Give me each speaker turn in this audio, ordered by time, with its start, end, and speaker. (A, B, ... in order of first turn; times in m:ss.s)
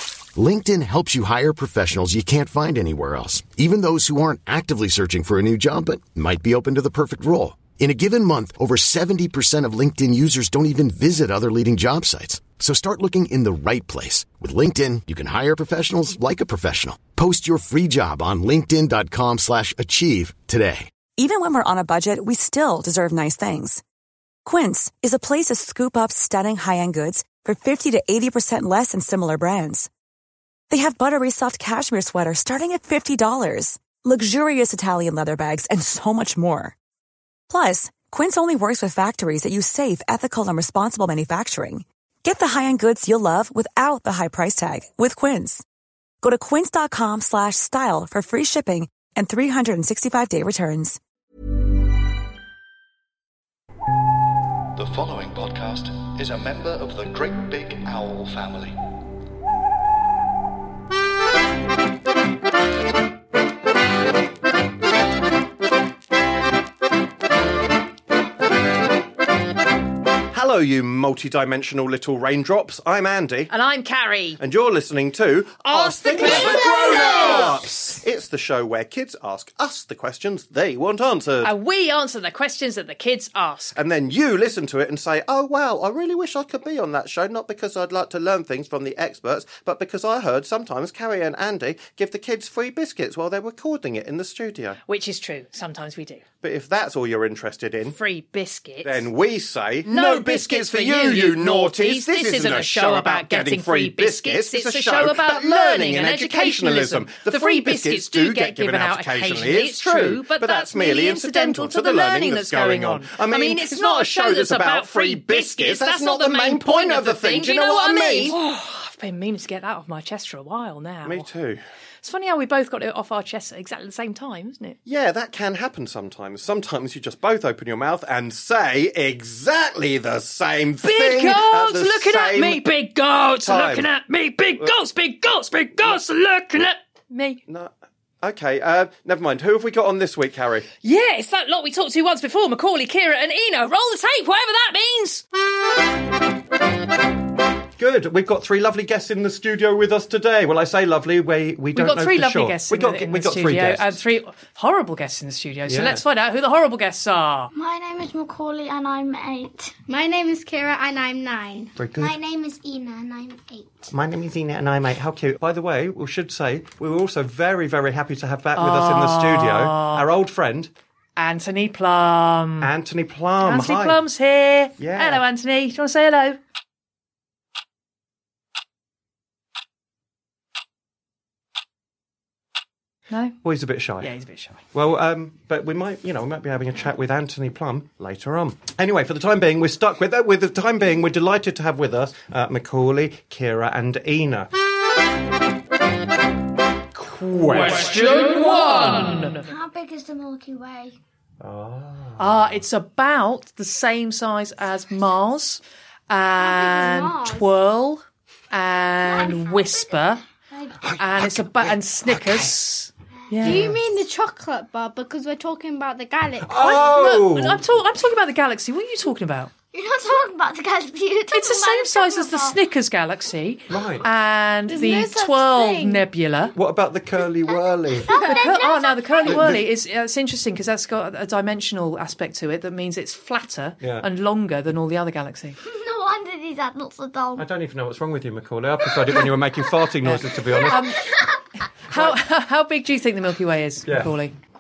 0:00.3-0:20.9 A
0:21.2-0:23.8 B
0:24.4-0:29.9 B
0:30.7-0:36.8 B
0:37.5-0:45.6 B
0:46.2-0:51.0 B
0:54.8-0:58.7 C
1:10.3-1:13.5 D
1:13.5-1:14.4 E
1:14.4-1:21.5 D
1:15.6-1:17.9 E
1:16.3-1:17.6 F
1:21.4-1:23.8 E
1:23.7-1:34.8 D
1:34.9-1:36.2 E
1:36.4-1:38.0 D
1:37.8-1:39.1 E
1:38.8-1:58.4 D
1:39.8-2:01.3 E
2:01.0-2:01.6 D
2:02.0-2:04.8 E
2:04.9-2:12.7 D
2:10.8-2:17.4 E
2:13.4-2:13.9 D
2:17.5-2:20.7 D
2:20.8-2:25.2 E
2:27.8-2:34.0 D
2:31.8-2:37.5 E
2:35.7-2:36.0 D
2:37.5-2:39.7 F
2:39.9-2:41.7 G
2:41.8-2:42.2 D
2:42.0-2:43.9 F
2:43.9-2:50.7 D
2:48.6-2:50.0 E
2:51.2-2:52.7 E
2:52.6-2:54.0 D
2:53.4-2:56.4 E
2:54.8-2:55.2 D
3:03.4-3:04.1 D
3:04.0-3:04.6 E
3:04.7-3:14.5 D
3:17.0-3:18.5 D
3:17.5-3:19.5 E
3:19.3-3:21.0 F
3:21.4-3:22.5 D
3:22.2-3:30.2 E
3:26.4-3:27.5 F
3:29.0-3:30.0 F
3:30.8-3:32.5 D
3:31.0-3:33.7 E
3:33.4-3:36.8 G
3:33.4-3:33.8 D
3:36.4-3:37.6 D
3:36.6-3:39.5 E
3:39.7-3:42.6 F
3:41.3-3:46.5 E
3:43.7-3:44.1 D
3:44.7-3:46.1 G
3:46.5-3:48.5 D
3:47.5-3:49.6 F
3:48.1-3:55.6 E
3:49.2-3:49.6 D
3:53.8-3:54.1 D
3:55.6-3:57.5 F
3:57.4-4:01.0 D
3:58.8-3:59.7 F
4:00.0-4:01.0 E
4:00.5-4:01.4 F
4:01.9-4:04.3 E
4:01.9-4:02.2 D
4:03.9-4:04.1 D